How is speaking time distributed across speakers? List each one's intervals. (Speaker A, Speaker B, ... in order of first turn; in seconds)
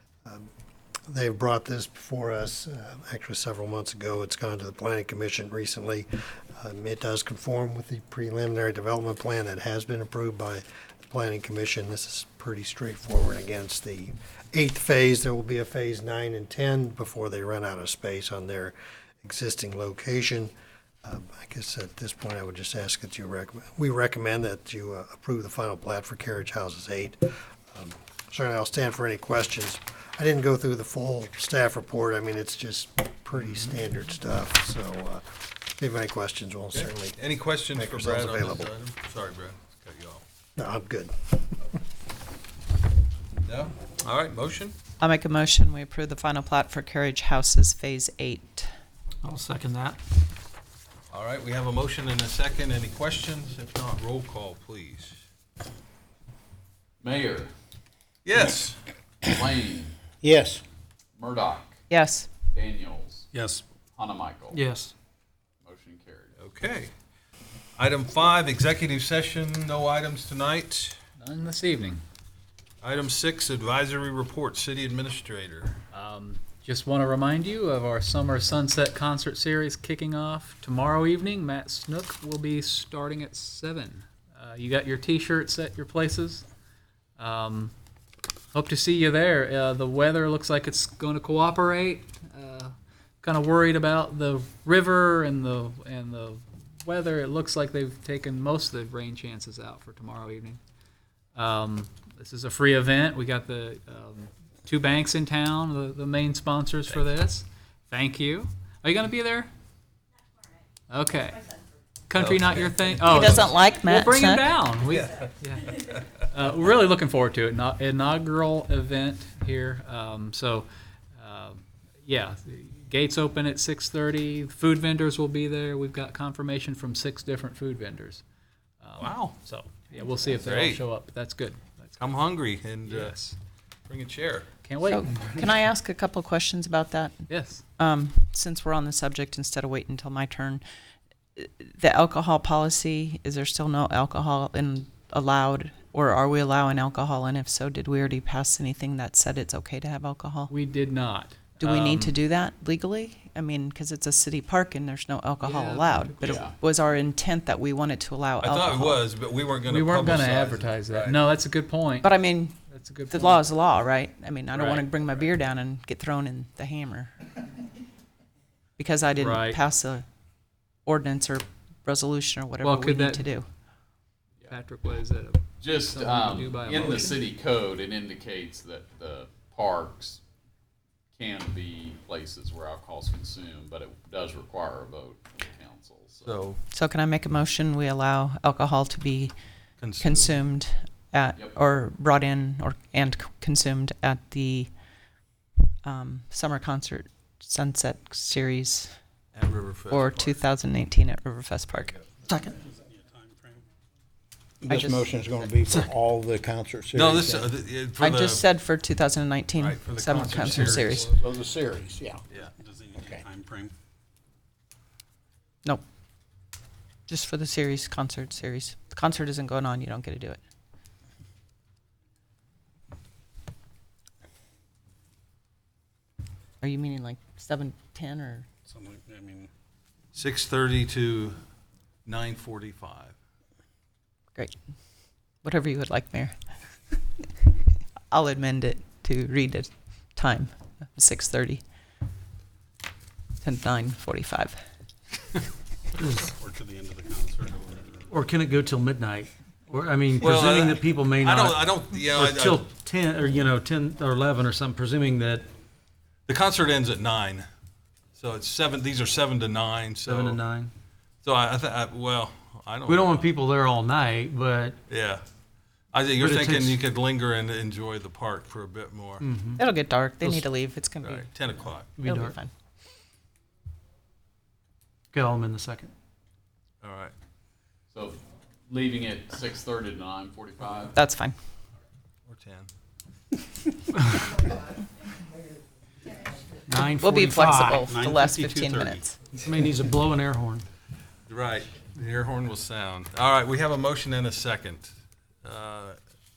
Speaker A: 1.1-20.5, 21.1-37.2, 37.7-38.7, 40.6-41.5
Speaker B: 36.7-40.2, 43.4-44.8, 51.1-55.2, 58.2-58.8, 66.4-66.9, 67.8-71.0, 72.8-75.8, 112.2-113.1, 114.9-115.3, 129.0-129.4, 130.4-130.8, 132.0-133.2, 133.9-134.5, 158.4-161.2, 186.2-186.6, 189.8-190.4, 199.3-200.4, 206.9-208.4, 209.6-211.2, 230.1-231.4, 232.1-233.1, 250.2-252.7, 256.3-257.5, 258.1-260.4, 261.2-263.3, 264.9-265.2, 265.9-269.3, 271.0-272.1, 276.8-277.1, 282.3-282.7, 291.3-294.9, 295.4-296.0
Speaker C: 45.0-48.7, 61.9-62.3, 113.1-114.5, 134.8-140.6, 141.4-150.5, 151.6-159.1, 162.0-167.1, 168.8-170.1, 170.9-173.5, 186.7-189.3, 190.0-194.7, 195.8-199.0, 199.9-202.5, 204.7-205.2, 208.0-211.2, 217.1-220.4, 226.6-228.5, 235.4-236.3, 238.1-241.6, 243.4-244.6, 269.6-272.5, 280.9-281.4, 287.0-289.3
Speaker D: 49.2-50.0, 64.5-64.9, 246.0-246.3, 248.1-255.5, 260.1-260.7, 262.9-264.8, 266.2-266.8, 269.2-269.6, 270.2-270.5, 272.0-272.4, 275.1-275.9, 286.7-287.8, 289.4-290.7
Speaker E: 57.0-57.5, 59.2-60.0, 61.2-61.8, 62.5-63.3, 64.0-64.6, 65.6-66.3, 156.2-156.6, 175.6-180.2, 181.2-186.4, 277.9-281.0
Speaker F: 60.2-60.6, 204.6-207.5, 210.6-212.2
Speaker G: 71.2-72.0, 75.9-86.5, 87.2-87.7, 88.5-100.6, 101.3-109.5, 110.9-111.5, 112.1-115.7, 116.3-128.2, 128.8-132.1, 132.8-133.4, 134.6-135.4, 137.3-137.6, 150.5-152.2, 155.4-156.5, 159.7-162.2, 162.7-163.5, 169.2-169.6, 172.6-173.3, 174.5-177.2
Speaker H: 202.6-203.7, 212.6-213.7, 228.7-229.5, 246.2-248.1, 287.8-289.4